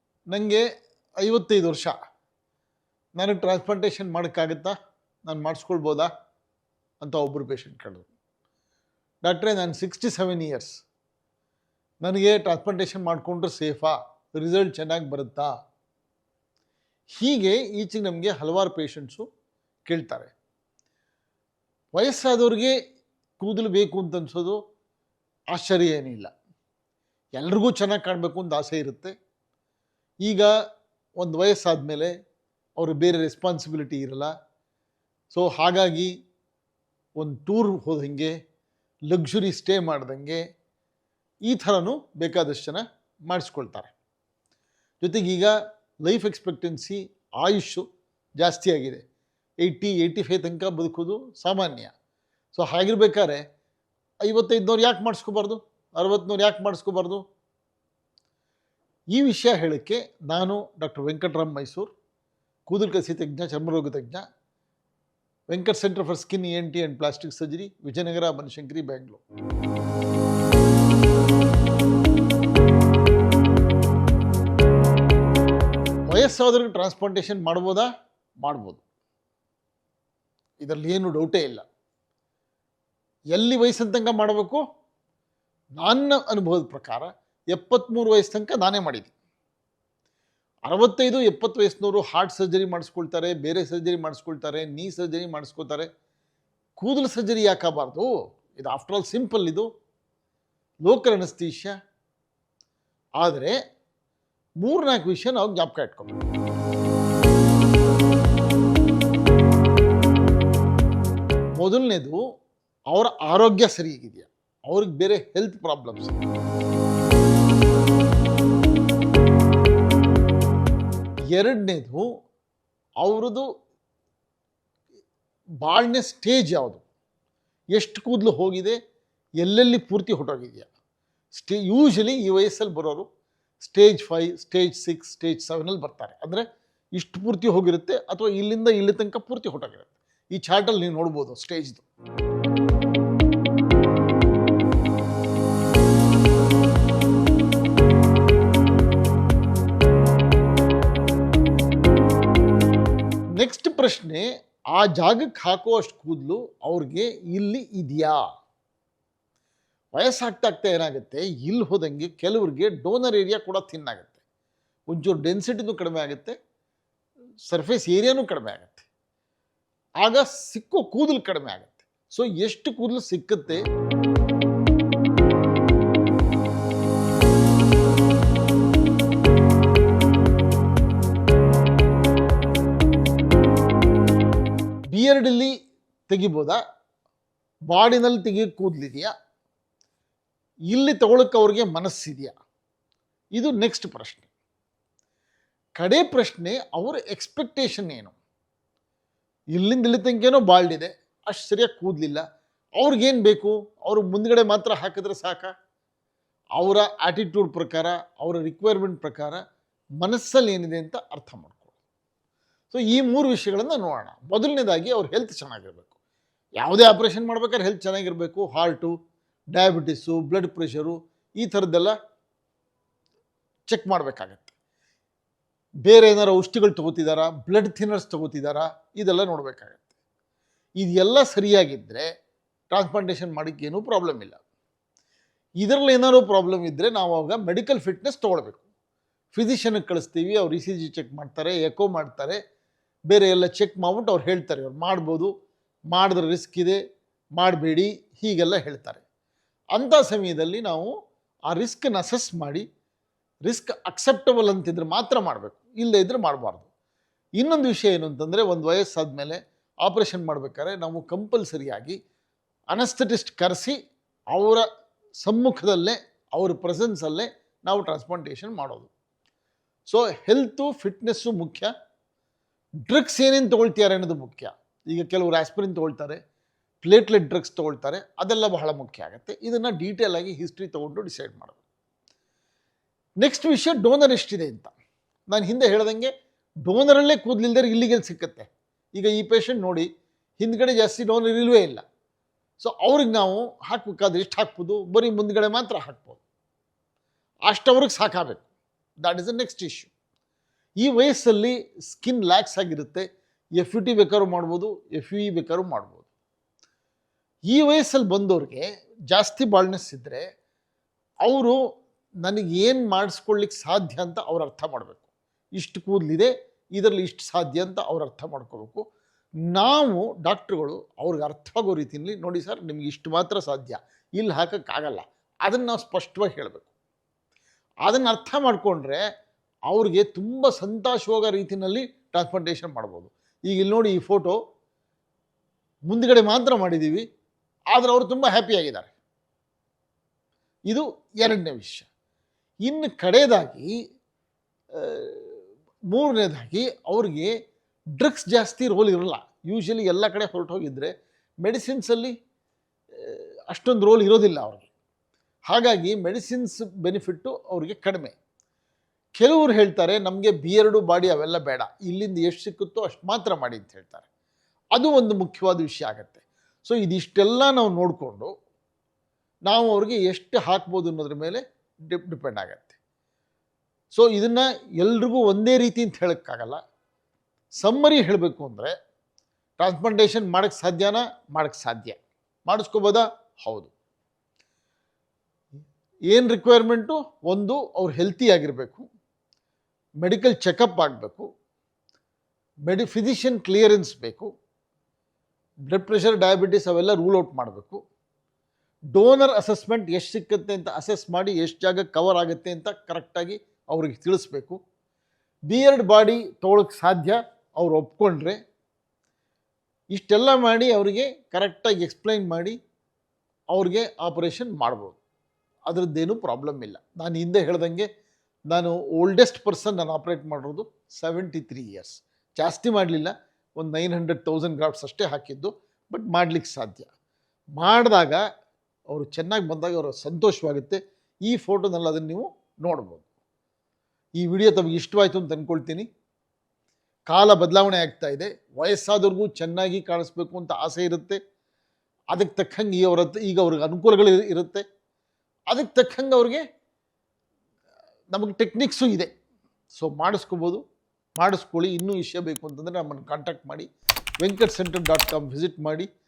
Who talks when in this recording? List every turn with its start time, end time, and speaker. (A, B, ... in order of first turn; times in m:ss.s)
0:00.3-0:00.7 A
0:01.2-0:02.0 A
0:03.2-0:06.1 A
0:07.0-0:08.1 A
0:09.2-0:10.8 A
0:12.0-0:15.5 A
0:17.2-0:19.2 A
0:19.9-0:20.3 A
0:21.9-0:22.7 A
0:23.4-0:24.6 A
0:25.5-0:26.3 A
0:27.4-0:29.2 A
0:30.2-0:30.5 A
0:31.2-0:32.1 A
0:32.8-0:34.3 A
0:35.3-0:36.1 A
0:37.2-0:38.3 A
0:39.1-0:40.4 A
0:41.5-0:43.9 A
0:45.0-0:47.8 A
0:48.4-0:49.0 A
0:49.6-0:51.9 A
0:52.5-0:53.4 A
0:54.2-0:57.2 A
0:59.1-1:01.9 A
1:02.7-1:04.2 A
1:05.5-1:09.2 A
1:16.1-1:17.9 A
1:18.4-1:18.8 A
1:20.6-1:21.6 A
1:23.3-1:24.6 A
1:25.8-1:29.1 A
1:30.7-1:35.9 A
1:36.8-1:39.7 A
1:40.8-1:41.8 A
1:43.2-1:43.6 A
1:44.6-1:46.1 A
1:51.6-1:52.2 A
1:52.9-1:56.2 A
2:01.3-2:02.0 A
2:03.0-2:03.4 A
2:05.6-2:06.8 A
2:07.7-2:08.8 A
2:09.4-2:10.7 A
2:11.3-2:13.1 A
2:13.6-2:16.4 A
2:17.0-2:21.8 A
2:33.4-2:38.2 A
2:40.0-2:44.2 A
2:44.9-2:46.4 A
2:47.4-2:48.9 A
2:50.0-2:53.6 A
3:04.9-3:05.5 A
3:06.1-3:06.6 A
3:07.7-3:09.1 A
3:10.7-3:12.3 A
3:13.3-3:14.3 A
3:15.8-3:18.2 A
3:19.5-3:22.2 A
3:22.8-3:25.5 A
3:26.6-3:29.4 A
3:30.0-3:31.8 A
3:32.7-3:36.0 A
3:36.6-3:38.9 A
3:39.5-3:42.0 A
3:43.7-3:44.5 A
3:45.8-3:49.9 A
3:50.8-3:52.1 A
3:52.7-3:54.4 A
3:55.6-3:58.6 A
3:59.3-4:02.4 A
4:03.1-4:05.3 A
4:05.9-4:06.8 A
4:07.4-4:09.0 A
4:09.7-4:10.9 A
4:11.5-4:12.6 A
4:13.5-4:16.7 A
4:17.4-4:22.0 A
4:22.7-4:23.8 A
4:24.3-4:24.6 A
4:25.2-4:28.9 A
4:29.9-4:31.7 A
4:32.9-4:36.2 A
4:36.8-4:41.6 A
4:43.2-4:44.7 A
4:45.3-4:46.1 A
4:46.6-4:49.9 A
4:50.4-4:51.8 A
4:52.6-4:56.2 A
4:57.5-4:58.5 A
4:59.0-4:59.9 A
5:00.8-5:03.0 A
5:03.6-5:06.1 A
5:07.5-5:10.2 A
5:11.2-5:11.6 A
5:12.2-5:18.8 A
5:19.5-5:26.7 A
5:27.8-5:29.0 A
5:29.7-5:34.4 A
5:35.9-5:37.0 A
5:37.7-5:38.9 A
5:40.7-5:41.9 A
5:42.6-5:43.7 A
5:44.8-5:47.3 A
5:48.0-5:50.9 A
5:51.4-5:52.1 A
5:53.0-5:54.7 A
5:55.5-5:58.2 A
5:59.2-6:04.1 A
6:04.8-6:08.3 A
6:09.5-6:12.8 A
6:13.9-6:16.6 A
6:17.6-6:18.7 A
6:19.6-6:23.7 A
6:26.1-6:28.8 A
6:30.0-6:31.3 A
6:32.7-6:34.3 A
6:35.7-6:37.8 A
6:38.9-6:44.6 A
6:45.5-6:48.4 A
6:49.9-6:52.6 A
6:53.5-6:55.0 A
6:55.7-6:57.9 A
6:58.5-7:06.9 A
7:07.6-7:08.2 A
7:08.9-7:13.1 A
7:14.2-7:15.9 A
7:17.1-7:21.2 A
7:22.1-7:24.6 A
7:25.5-7:26.4 A
7:28.1-7:29.1 A
7:29.7-7:30.6 A
7:31.2-7:33.7 A
7:34.2-7:35.9 A